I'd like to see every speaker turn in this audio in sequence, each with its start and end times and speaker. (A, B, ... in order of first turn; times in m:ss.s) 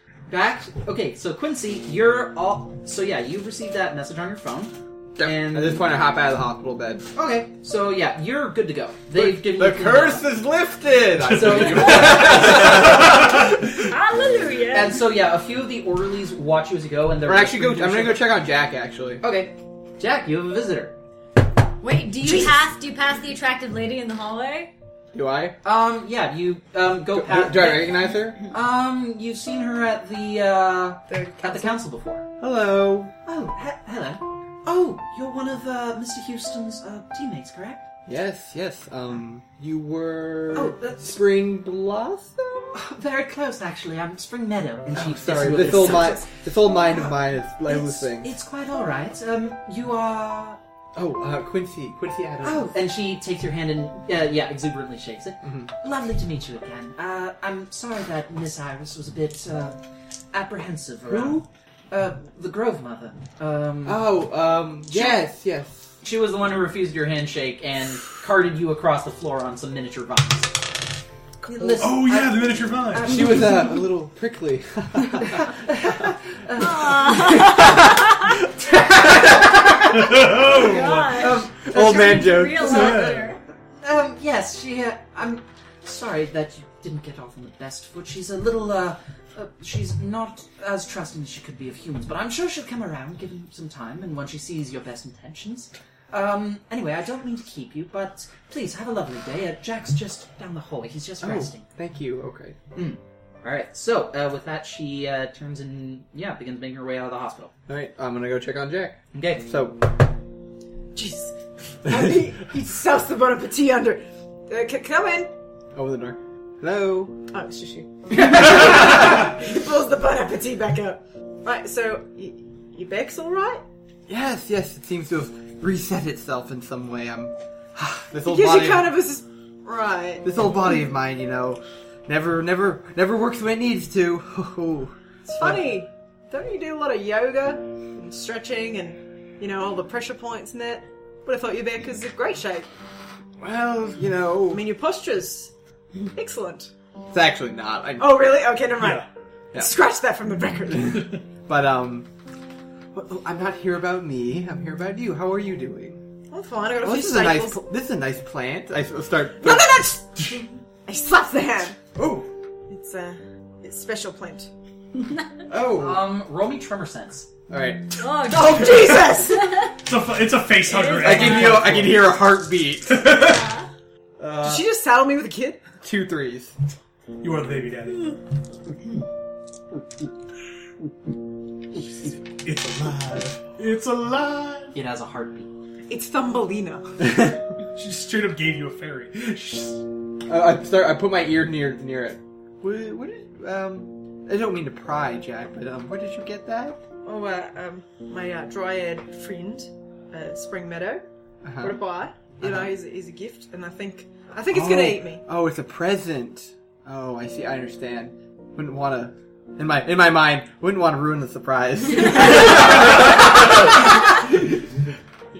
0:00.3-0:05.9 A
0:05.2-0:07.0 B
0:07.1-0:10.3 A
0:09.1-0:13.2 B
0:11.3-0:13.0 A
0:12.5-0:13.5 C
0:13.9-0:15.0 D
0:14.7-0:18.3 A
0:17.2-0:19.2 B
0:19.2-0:21.0 A
0:21.8-0:24.7 D
0:25.1-0:25.6 B
0:25.6-0:32.2 A
0:27.1-0:28.4 B
0:31.1-0:31.8 E
0:32.4-0:33.1 B
0:33.2-0:37.8 A
0:38.1-0:42.8 B
0:40.5-0:41.2 A
0:42.7-0:46.2 A
0:44.9-0:48.3 B
0:47.6-0:50.6 A
0:51.0-0:52.7 B
0:52.4-0:59.8 A
0:55.4-0:55.7 B
1:00.3-1:04.2 A
1:01.1-1:01.4 B
1:03.8-1:05.9 B
1:04.9-1:05.3 A
1:06.0-1:10.6 A
1:11.4-1:13.8 A
1:11.8-1:13.4 C
1:13.0-1:15.6 B
1:15.4-1:17.5 A
1:16.6-1:18.1 D
1:17.3-1:18.1 B
1:18.6-1:20.1 B
1:19.9-1:21.3 C
1:20.4-1:21.4 D
1:21.1-1:23.1 B
1:21.2-1:23.1 A
1:21.9-1:23.4 D
1:22.6-1:23.3 C
1:23.8-1:41.6 A
1:41.2-1:42.6 B
1:42.7-1:47.5 A
1:47.7-1:49.8 B
1:49.1-1:49.4 A
1:50.9-1:51.3 E
1:51.8-1:55.3 E
1:55.7-1:57.2 B
1:57.3-2:03.6 E
1:58.3-1:58.8 B
2:04.1-2:08.9 B
2:08.2-2:10.2 E
2:10.2-2:15.8 B
2:15.3-2:22.7 E
2:23.4-2:24.7 B
2:24.5-2:25.5 E
2:26.1-2:26.7 E
2:27.1-2:28.3 B
2:28.0-2:31.2 E
2:28.8-2:29.0 C
2:30.7-2:32.1 B
2:32.9-2:36.0 B
2:36.3-2:37.6 E
2:36.8-2:40.0 B
2:39.4-2:41.8 E
2:41.9-2:42.3 B
2:42.7-2:44.5 E
2:45.5-2:46.0 B
2:45.7-2:47.3 A
2:47.5-2:48.0 B
2:48.0-2:48.9 D
2:48.2-2:49.7 E
2:49.8-2:52.2 C
2:50.6-2:51.6 D
2:50.9-2:53.1 B
2:52.9-2:53.4 C
2:53.0-2:53.7 D
2:54.2-2:54.6 B
2:54.4-2:55.6 E
2:55.8-2:56.5 B
2:57.2-2:58.2 C
3:02.4-3:04.7 C
3:04.7-3:05.5 A
3:05.9-3:06.9 E
3:07.7-3:09.8 C
3:10.2-3:16.8 B
3:17.0-3:21.0 E
3:21.4-3:21.9 B
3:21.6-3:25.2 E
3:22.4-3:22.7 B
3:24.5-3:34.4 B
3:32.6-3:33.4 C